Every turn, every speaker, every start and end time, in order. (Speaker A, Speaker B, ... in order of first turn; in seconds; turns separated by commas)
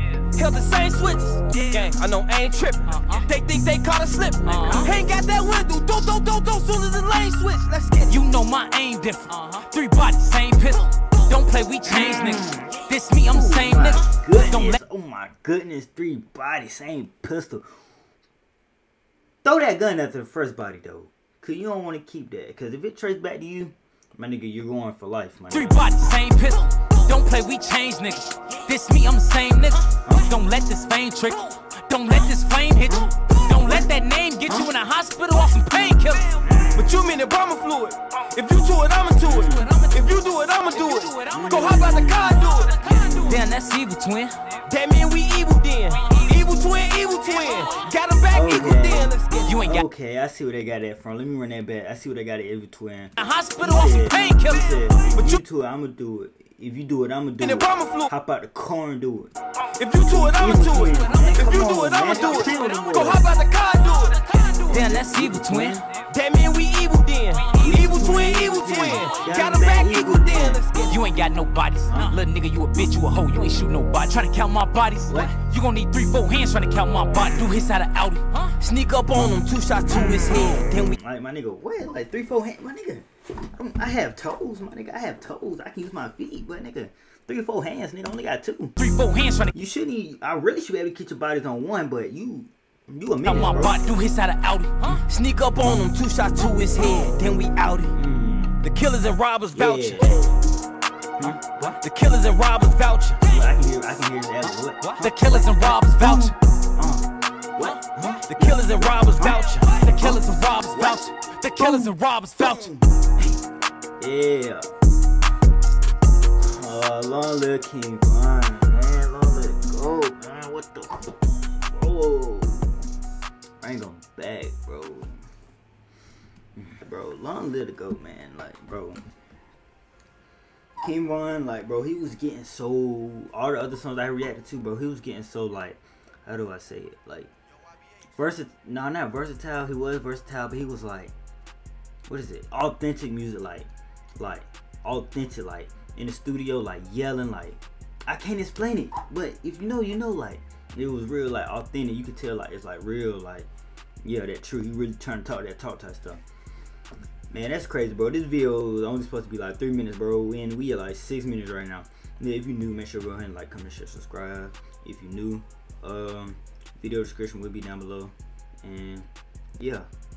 Speaker A: 0.3-8.2, Speaker B: 2.9-3.3, Speaker B: 4.5-4.9, Speaker B: 8.1-14.8, Speaker C: 11.9-17.7, Speaker C: 19.4-25.9, Speaker B: 25.5-36.5, Speaker C: 30.0-30.3, Speaker C: 32.9-33.9, Speaker C: 36.4-37.0, Speaker A: 36.8-42.9, Speaker C: 39.3-39.7, Speaker B: 39.3-44.4, Speaker C: 41.3-43.4, Speaker A: 44.6-49.6, Speaker B: 46.0-46.3, Speaker B: 47.5-47.9, Speaker C: 48.3-59.3, Speaker B: 49.5-49.9, Speaker B: 53.2-55.0, Speaker A: 55.1-55.4, Speaker A: 57.4-58.1, Speaker A: 59.7-64.5, Speaker C: 60.2-63.3, Speaker B: 62.4-62.7, Speaker B: 64.2-65.8, Speaker C: 64.7-65.9, Speaker A: 66.1-71.0, Speaker C: 67.5-70.7, Speaker B: 70.9-78.5, Speaker C: 71.9-72.2, Speaker C: 75.1-75.4, Speaker A: 78.5-81.0, Speaker C: 80.5-88.8, Speaker B: 88.8-89.5, Speaker C: 89.5-94.0, Speaker B: 93.2-95.0, Speaker A: 95.0-98.0, Speaker C: 97.9-98.6, Speaker A: 98.6-100.2, Speaker C: 99.5-100.2, Speaker C: 101.2-101.5, Speaker A: 101.5-103.3, Speaker C: 103.2-111.0, Speaker B: 104.8-106.3, Speaker A: 108.3-109.9, Speaker B: 109.3-112.7, Speaker C: 111.6-113.3, Speaker C: 114.0-114.7, Speaker C: 116.4-122.7, Speaker C: 123.6-125.2, Speaker C: 126.6-129.0, Speaker C: 130.8-137.3, Speaker C: 138.0-141.1, Speaker C: 142.1-153.5, Speaker C: 154.0-156.2, Speaker C: 157.3-169.9